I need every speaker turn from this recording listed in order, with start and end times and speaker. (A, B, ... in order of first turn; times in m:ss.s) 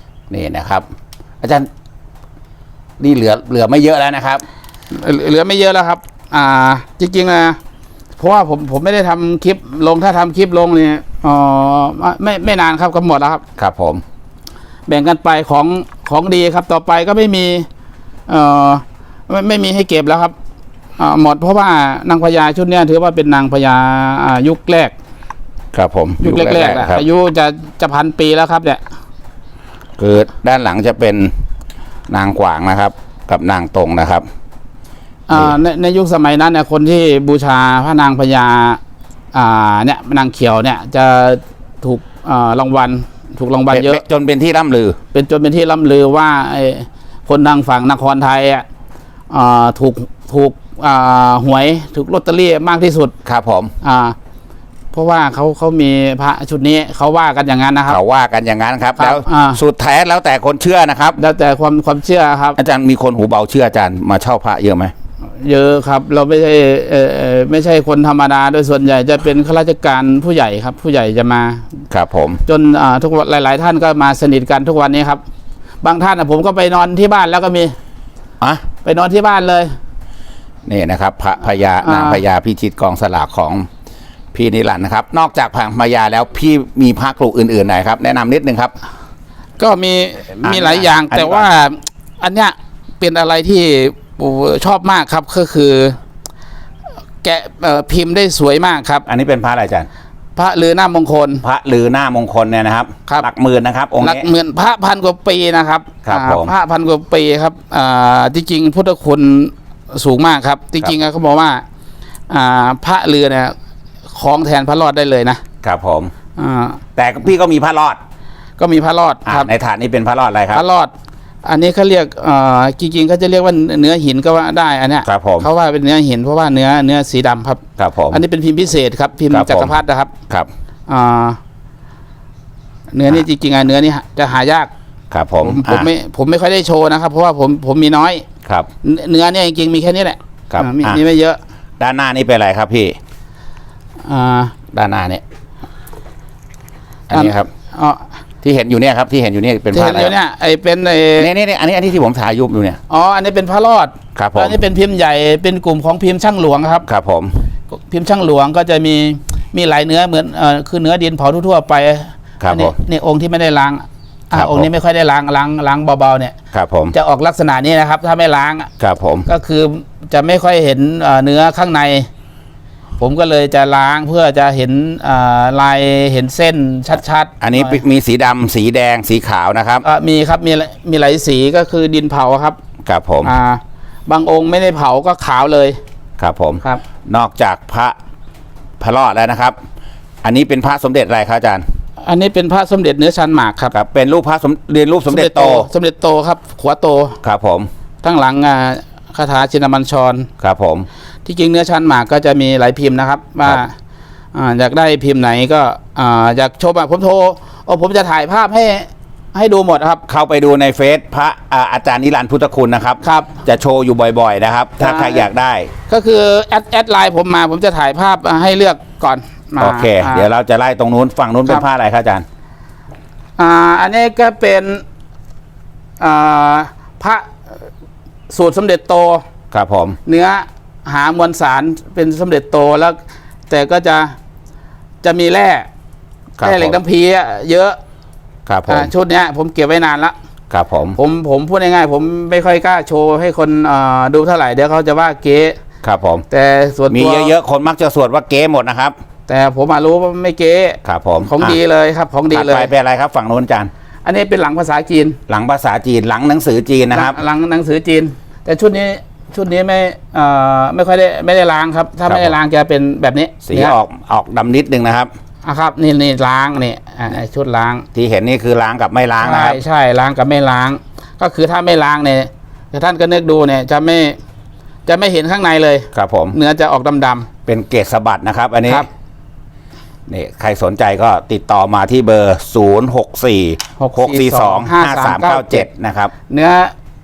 0:00.3-0:00.9 A
0:01.4-0:01.7 A
0:03.0-0:04.4 A
0:04.9-0:07.6 B
0:08.2-0:13.4 B
0:13.6-0:14.0 A
0:14.9-0:17.7 B
0:18.3-0:20.3 B
0:21.0-0:24.9 B
0:25.7-0:27.0 A
0:26.2-0:28.8 B
0:30.0-0:31.3 A
0:32.1-0:34.2 A
0:35.3-0:38.8 B
0:35.3-0:35.6 A
0:39.3-0:44.0 B
0:43.7-0:45.0 A
0:45.1-0:48.6 B
0:49.3-0:53.1 B
0:53.2-0:53.7 A
0:53.8-0:54.2 B
0:54.9-0:58.0 B
0:57.9-1:01.2 A
0:59.0-0:59.6 B
1:01.2-1:02.6 B
1:02.6-1:04.9 A
1:05.4-1:11.7 B
1:11.9-1:12.4 A
1:12.5-1:15.2 B
1:15.8-1:17.8 B
1:18.8-1:19.7 B
1:20.7-1:23.7 A
1:21.8-1:22.2 B
1:24.3-1:28.7 A
1:29.6-1:36.0 B
1:30.4-1:31.5 A
1:37.2-1:39.0 B
1:39.1-1:39.9 A
1:40.4-1:41.4 B
1:41.4-1:44.3 A
1:44.0-1:51.6 B
1:46.0-1:46.5 A
1:52.3-1:53.5 B
1:54.1-1:55.4 B
1:55.6-1:56.1 A
1:56.4-1:56.8 B
1:57.0-1:58.0 A
1:58.6-1:59.5 B
1:59.3-2:00.6 A
2:00.5-2:00.9 B
2:01.4-2:10.1 B
2:05.0-2:05.5 A
2:07.8-2:08.2 A
2:09.3-2:09.8 A
2:10.9-2:11.4 B
2:12.9-2:14.7 B
2:15.1-2:15.9 A
2:15.4-2:18.2 B
2:18.8-2:21.4 B
2:20.5-2:21.0 A
2:21.8-2:23.0 A
2:24.0-2:24.5 B
2:24.7-2:25.2 A
2:27.1-2:27.5 A
2:27.1-2:28.0 B
2:28.4-2:30.2 A
2:29.7-2:31.3 B
2:31.2-2:32.8 A
2:32.9-2:36.9 B
2:34.2-2:34.6 A
2:36.9-2:37.3 A
2:37.7-2:46.4 B
2:42.4-2:42.8 A
2:44.3-2:44.7 A
2:46.5-2:47.0 A
2:46.9-2:48.7 B
2:48.8-2:49.3 A
2:49.3-2:52.1 B
2:53.0-2:57.8 B
2:57.4-2:59.8 A
2:59.8-3:02.6 B
3:02.8-3:03.3 A
3:03.2-3:05.8 B
3:06.2-3:08.0 A
3:08.8-3:09.6 A
3:10.2-3:11.6 A
3:12.0-3:13.7 B
3:13.7-3:15.7 A
3:15.1-3:17.2 B
3:17.2-3:17.7 A
3:18.0-3:20.3 B
3:20.4-3:20.9 A
3:21.2-3:23.7 B
3:24.3-3:30.0 B
3:30.1-3:35.7 A
3:33.0-3:33.4 B
3:34.8-3:35.3 B
3:35.9-3:40.3 B
3:39.6-3:42.2 A
3:43.4-3:44.8 B
3:46.0-3:47.3 B
3:48.3-3:49.2 B
3:49.5-3:50.0 A
3:50.1-3:53.0 B
3:53.5-3:54.2 B
3:55.0-3:55.7 B
3:56.4-3:56.8 A
3:56.4-3:57.8 B
3:58.5-3:58.9 A
3:58.7-4:00.2 B
4:00.5-4:01.0 A
4:01.0-4:05.6 B
4:05.8-4:06.2 A
4:06.3-4:07.4 B
4:06.9-4:09.0 A
4:09.3-4:12.7 B
4:10.8-4:11.6 A
4:12.3-4:13.7 A
4:14.0-4:15.2 B
4:15.3-4:17.2 A
4:16.9-4:23.8 B
4:22.0-4:22.4 A
4:23.5-4:25.1 A
4:25.4-4:27.9 B
4:27.9-4:29.6 A
4:29.2-4:34.2 B
4:34.9-4:37.3 B
4:35.9-4:36.4 A
4:37.5-4:38.9 A
4:40.1-4:46.1 A
4:43.8-4:45.7 B
4:46.3-4:46.7 B